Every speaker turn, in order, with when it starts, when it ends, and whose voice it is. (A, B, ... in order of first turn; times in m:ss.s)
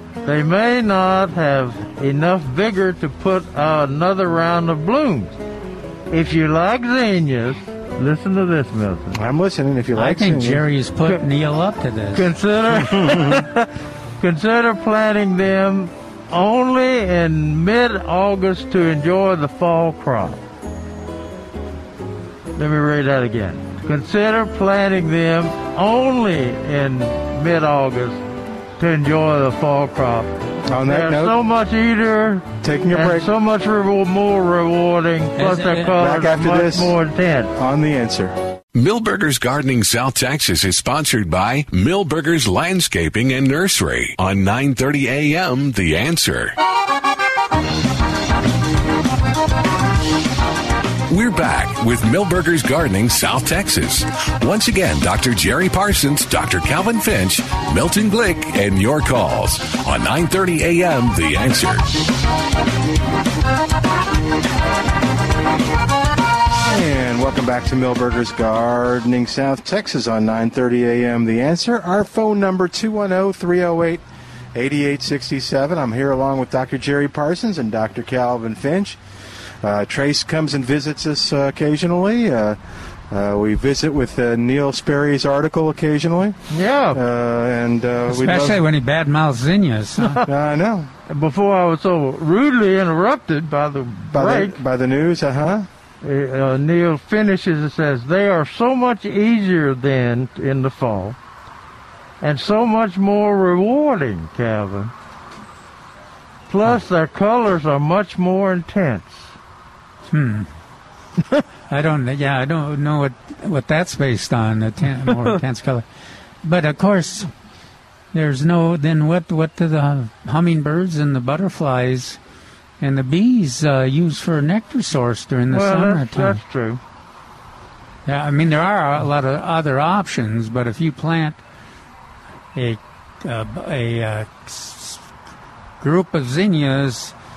0:00.2-0:05.4 A
0:06.1-0:09.2 A
0:09.1-0:10.6 B
0:09.9-0:12.3 C
0:12.1-0:20.4 A
0:12.9-0:13.4 B
0:22.6-0:28.2 A
0:28.8-0:37.5 A
0:30.7-0:31.3 B
0:32.6-0:33.3 B
0:35.4-0:36.0 C
0:36.0-0:36.9 B
0:37.5-0:38.4 B
0:38.7-0:46.5 D
0:51.1-1:02.1 D
1:06.6-1:14.0 B
1:14.5-1:19.0 B
1:19.6-1:22.6 B
1:23.1-1:26.4 B
1:26.5-1:27.0 A
1:26.9-1:28.6 B
1:28.1-1:30.2 C
1:30.2-1:30.9 B
1:31.1-1:34.6 A
1:34.1-1:35.7 B
1:36.0-1:41.2 A
1:42.2-1:44.9 A
1:46.5-1:49.3 A
1:50.1-1:50.5 C
1:51.7-1:55.8 C
1:56.4-1:57.3 C
1:58.1-2:02.2 C
2:02.8-2:06.4 C
2:05.5-2:06.8 A
2:08.0-2:11.4 C
2:12.5-2:15.0 C
2:15.8-2:17.1 C